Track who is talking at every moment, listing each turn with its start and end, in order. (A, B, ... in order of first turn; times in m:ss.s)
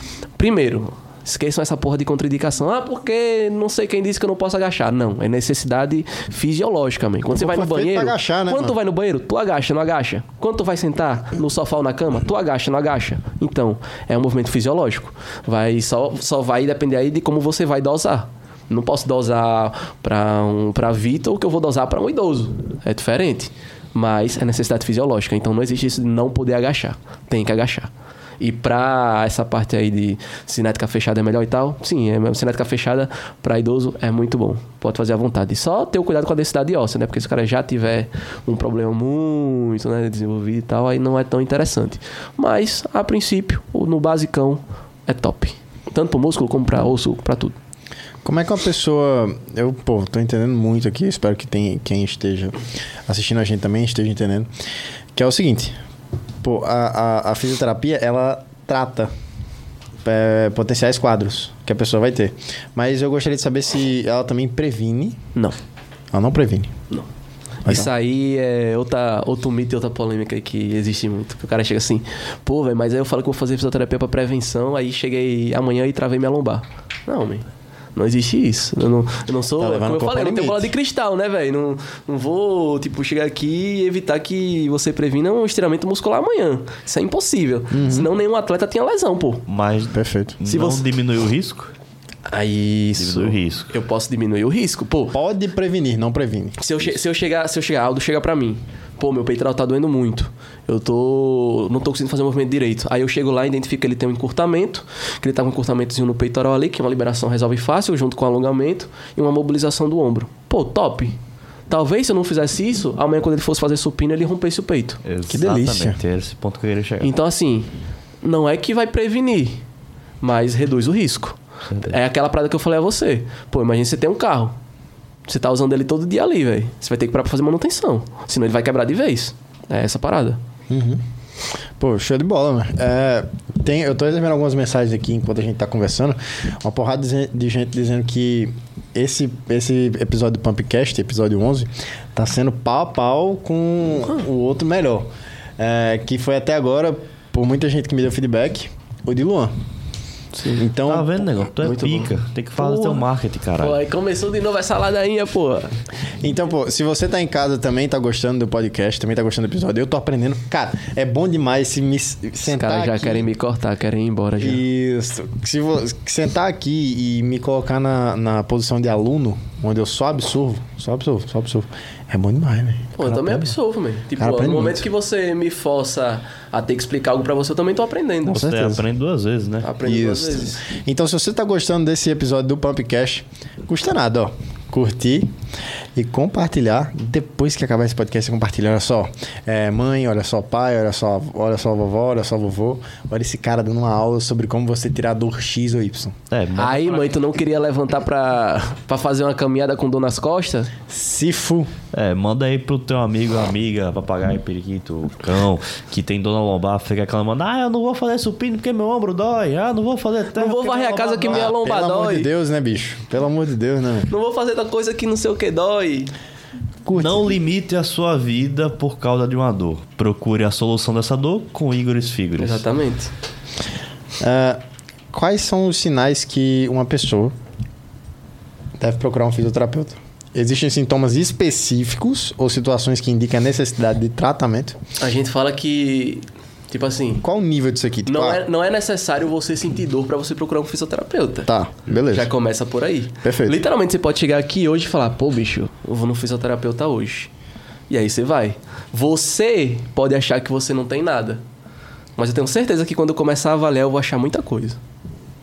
0:00.4-0:47.6 A
0:07.3-0:08.8 B
0:48.2-0:54.5 B
0:55.2-0:55.8 B
0:56.4-0:59.1 B
1:00.0-1:05.2 B
1:06.1-1:06.7 B
1:07.6-1:29.4 A
1:07.7-1:07.9 B
1:19.6-1:20.7 B
1:27.7-1:28.1 B
1:29.5-1:31.7 C
1:29.9-1:30.4 B
1:30.5-1:30.8 A
1:32.3-1:35.2 A
1:33.0-1:33.7 C
1:35.1-1:36.6 B
1:36.6-1:55.0 A
1:55.0-1:57.1 C
1:55.3-1:56.0 B
1:57.0-1:57.7 A
1:58.2-1:59.6 A
2:00.2-2:04.6 A
2:05.3-2:10.4 A
2:10.7-2:11.0 B
2:11.8-2:29.5 B
2:30.3-2:30.6 A
2:30.6-2:31.3 B
2:30.8-2:33.8 C
2:31.6-2:33.0 A
2:33.6-2:35.7 A
2:36.2-2:43.3 B
2:42.5-2:44.6 A
2:44.4-2:53.6 B
2:53.0-2:58.6 A
2:54.2-2:54.8 B
2:58.3-2:59.7 C
2:58.3-2:58.8 B
2:59.6-3:00.7 A
2:59.8-3:05.3 B
3:06.0-3:16.2 B
3:16.3-3:17.3 C
3:16.6-3:20.7 A
3:20.9-3:21.7 B
3:21.9-3:31.5 C
3:30.3-3:32.3 A
3:31.0-3:34.1 B
3:34.1-3:36.1 A
3:36.8-3:37.4 B
3:37.0-3:42.6 C
3:42.4-3:43.1 A
3:44.2-3:44.6 B
3:45.1-3:47.3 B
3:48.8-3:54.8 B
3:55.0-3:57.2 A
3:57.2-3:58.4 B
3:58.1-4:01.5 A
4:01.5-4:02.3 B
4:02.1-4:07.3 A
4:03.2-4:03.6 B
4:07.9-4:11.4 A
4:12.2-4:14.8 A